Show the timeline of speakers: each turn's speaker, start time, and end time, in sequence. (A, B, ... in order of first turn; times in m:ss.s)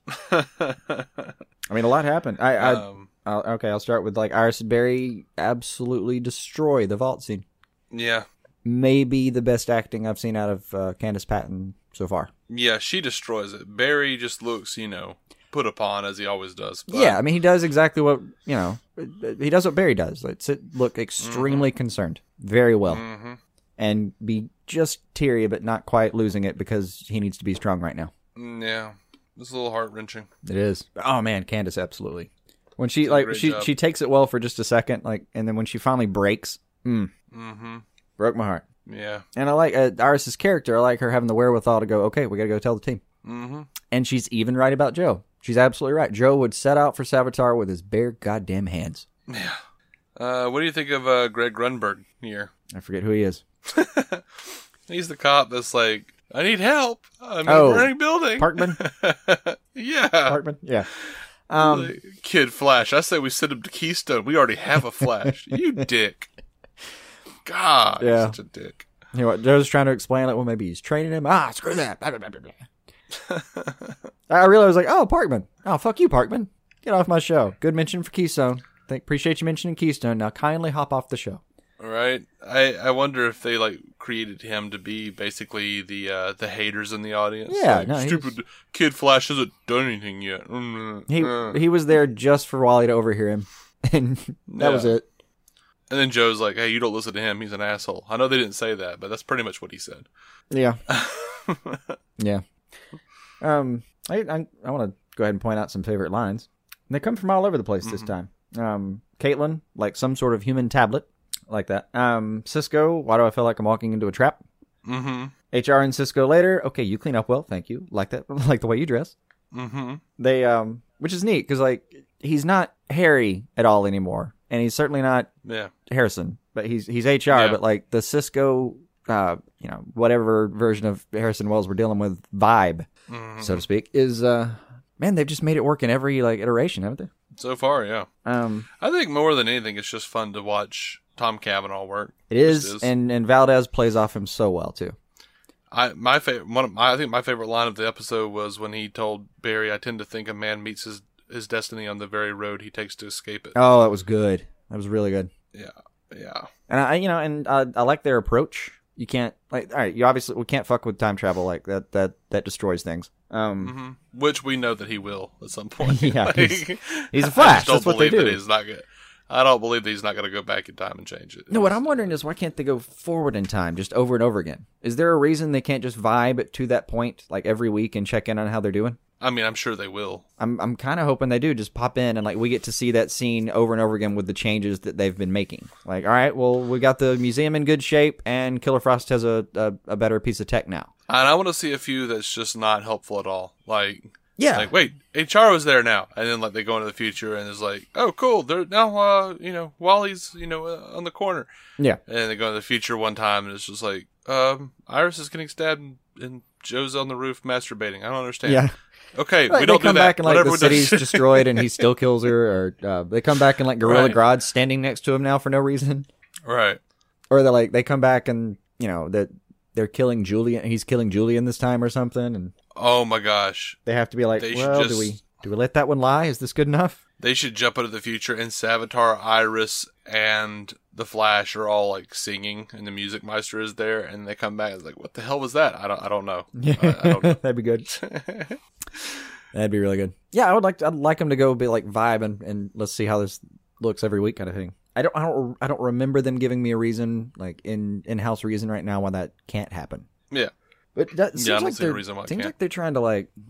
0:00.2-0:01.3 A
0:01.7-0:07.5 B
0:02.6-0:03.1 A
0:07.9-0:08.3 A
0:08.6-0:12.3 B
0:12.5-0:17.2 A
0:16.9-0:23.0 B
0:21.2-0:21.7 A
0:22.9-0:23.4 A
0:23.8-0:28.1 B
0:28.4-0:30.3 A
0:30.4-0:37.1 B
0:33.0-0:33.7 A
0:37.3-0:37.8 A
0:38.2-0:38.7 B
0:38.9-0:39.2 A
0:39.4-0:43.0 B
0:43.2-0:43.7 A
0:43.9-0:49.1 B
0:49.3-0:49.6 A
0:50.2-0:52.5 A
0:52.7-0:53.4 B
0:53.7-0:54.2 A
0:54.9-1:00.4 A
0:57.5-0:58.8 B
1:00.2-1:00.9 B
1:01.5-1:02.0 B
1:01.6-1:06.3 A
1:07.4-1:08.9 A
1:08.0-1:08.4 B
1:09.1-1:12.6 B
1:13.3-1:14.0 A
1:14.3-1:21.4 B
1:21.8-1:31.6 A
1:27.5-1:28.4 B
1:31.1-1:35.1 B
1:34.5-1:35.0 A
1:35.9-1:40.1 A
1:40.5-1:40.8 B
1:40.9-1:42.0 A
1:42.2-1:42.4 B
1:43.4-1:54.4 B
1:47.8-1:48.1 A
1:54.8-1:55.3 A
1:55.5-1:59.2 B
1:59.5-2:00.0 A
2:00.2-2:05.3 B
2:05.4-2:05.7 A
2:05.9-2:12.9 B
2:07.3-2:07.6 A
2:13.1-2:13.7 A
2:13.4-2:17.1 B
2:17.4-2:18.1 A
2:18.2-2:18.7 B
2:18.8-2:22.9 A
2:22.3-2:25.0 B
2:25.7-2:33.6 A
2:33.6-2:35.3 B
2:35.5-2:36.5 A
2:36.7-2:43.8 B
2:43.6-2:52.2 A
2:45.8-2:48.4 B
2:51.5-2:59.0 B
2:59.2-3:00.2 A
3:00.4-3:10.9 B
3:11.1-3:21.5 A
3:14.4-3:14.7 B
3:22.1-3:31.9 A
3:28.4-3:28.8 B
3:29.5-3:36.1 B
3:33.8-3:34.2 A
3:36.4-3:36.8 A
3:37.3-3:42.5 B
3:42.8-3:43.8 A
3:43.9-3:47.0 B
3:44.4-3:45.2 A
3:47.2-3:57.4 A
3:56.6-3:58.0 B
3:58.0-3:58.6 A
3:59.5-4:10.1 B
4:11.0-4:13.3 B
4:11.3-4:12.5 A